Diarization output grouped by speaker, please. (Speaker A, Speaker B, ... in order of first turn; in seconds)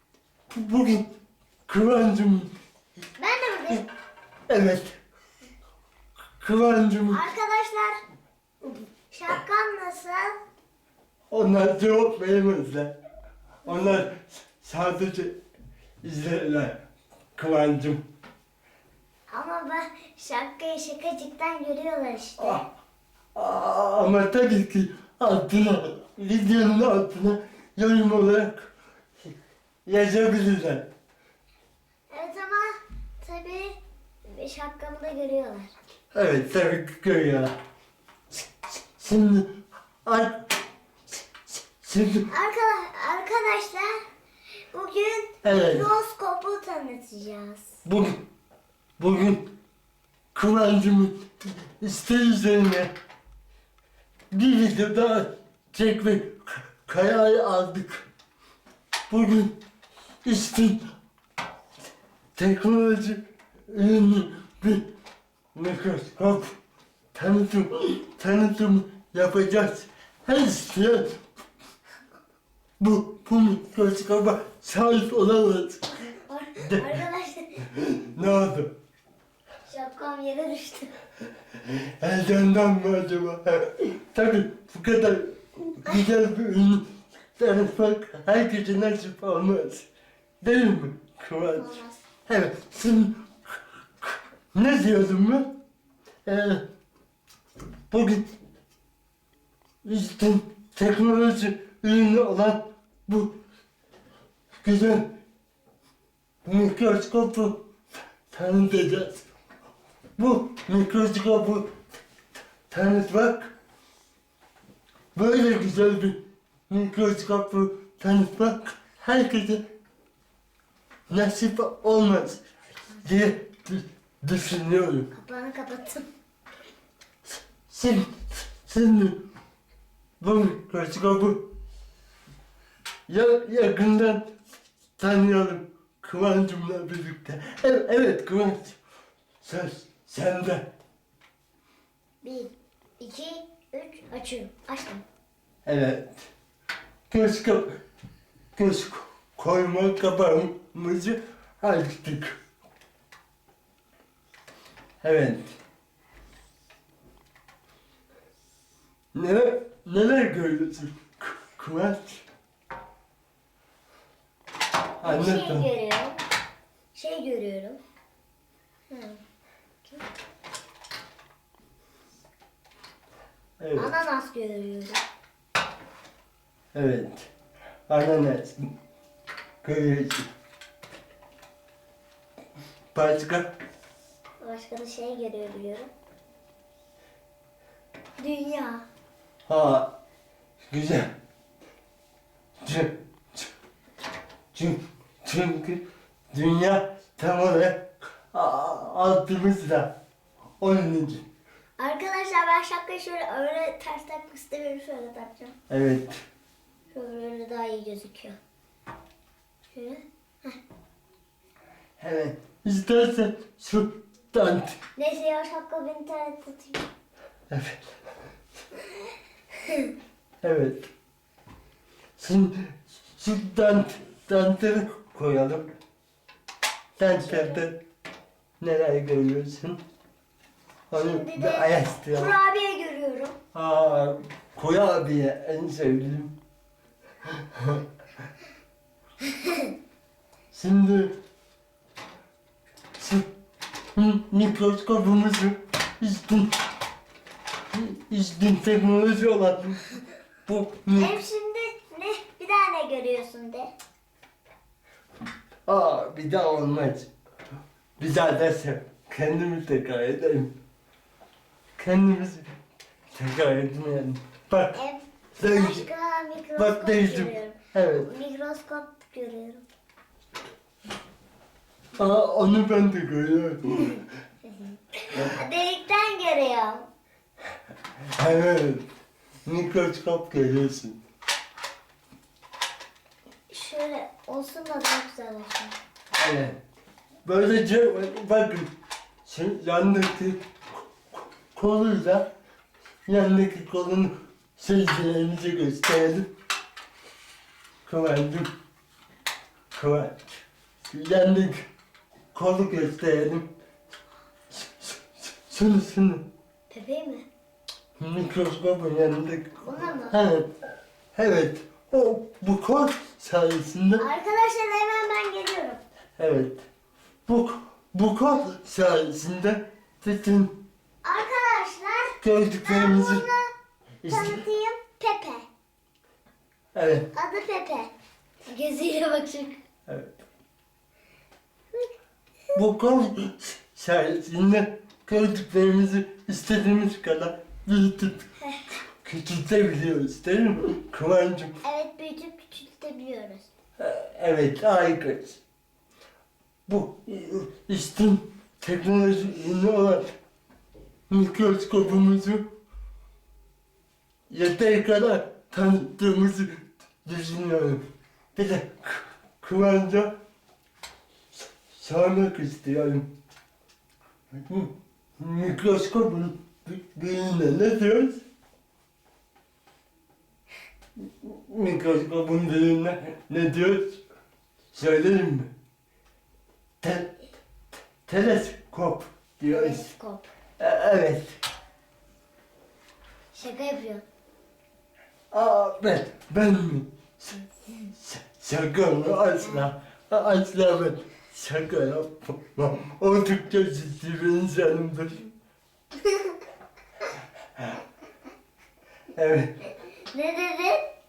Speaker A: 0.5-1.1, 1.7-2.5, 4.5-5.0, 6.4-7.2, 11.3-13.0, 13.7-15.4, 16.0-16.8, 17.4-18.0, 22.4-22.7, 23.4-28.7, 29.9-30.9, 36.1-37.6, 38.3-39.5, 40.0-40.5, 41.5-42.3, 45.4-45.9, 47.9-48.2, 49.0-49.5, 50.4-52.9, 54.3-58.1, 59.1-59.6, 60.2-60.8, 62.4-64.9, 65.5-66.6, 67.1-71.2, 72.8-76.0, 76.6-77.0, 77.7-78.7, 81.6-89.9, 90.4-95.5, 96.2-96.6, 97.9-98.3, 99.8-103.3, 104.6-105.1, 106.5-107.6, 108.3-109.3, 110.2-111.7, 112.7-113.5, 115.2-119.6, 121.1-122.4, 123.0-125.1, 127.7-129.2, 130.2-131.4, 133.1-134.3, 135.0-138.8, 139.4-140.7, 145.7-146.3, 147.1-147.8, 148.6-152.4, 155.0-155.6, 159.1-162.2, 165.0-165.7, 173.6-173.9, 176.7-177.3, 177.9-178.6, 179.6-180.3, 182.9-183.5, 189.5-189.9, 190.6-191.1, 192.6-193.5, 194.5-199.9, 200.6-201.2, 205.7-206.2, 212.0-214.8, 217.5-217.9, 220.4-220.9, 222.2-225.7, 227.0-227.8, 228.6-229.8, 230.9-232.4, 233.5-236.3, 237.2-237.8, 240.5-241.2, 243.0-243.3, 243.9-246.6, 247.7-249.9, 250.5-251.2, 255.7-257.1, 258.0-260.5, 261.8-262.5, 263.1-264.8, 265.4-265.9, 266.6-268.1, 272.0-274.1, 278.1-278.9, 279.4-281.0, 286.1-286.6, 287.2-288.7, 289.2-290.4, 291.5-292.3, 293.1-296.3, 297.9-298.5, 299.7-301.7, 302.3-303.5, 304.5-306.2, 308.0-310.5, 311.1-314.1, 316.2-316.6, 317.3-320.5, 322.2-323.2, 324.0-324.4, 326.8-327.1, 329.9-330.2, 332.6-341.6, 343.8-345.4, 346.7-350.1, 351.1-352.5, 354.3-357.8, 358.4-360.1, 361.3-363.1, 364.3-368.2, 371.0-374.0, 374.7-375.5, 376.8-377.3, 378.1-379.9, 380.6-381.4, 385.3-395.3, 399.1-399.5
Speaker B: 3.2-3.8, 7.1-8.0, 9.1-10.4, 19.3-22.6, 32.1-35.7, 42.3-44.0, 44.7-47.8, 76.1-77.7, 79.7-80.9, 91.5-92.0, 125.1-126.0, 142.2-145.1, 165.0-166.2, 166.9-167.8, 168.9-169.2, 173.8-175.0, 184.4-185.9, 188.2-188.9, 201.8-205.6, 206.9-208.4, 209.7-210.6, 215.0-216.9, 219.6-219.9, 227.0-227.7, 230.9-233.4, 239.2-239.7, 250.9-253.7, 264.8-269.6, 274.4-276.9, 283.5-285.8, 306.7-307.3, 309.6-310.2, 314.0-315.8, 321.0-323.5, 324.1-325.5, 327.1-327.9, 328.4-329.6, 341.6-343.5, 379.5-380.3, 383.3-384.1, 396.0-396.4, 400.1-400.9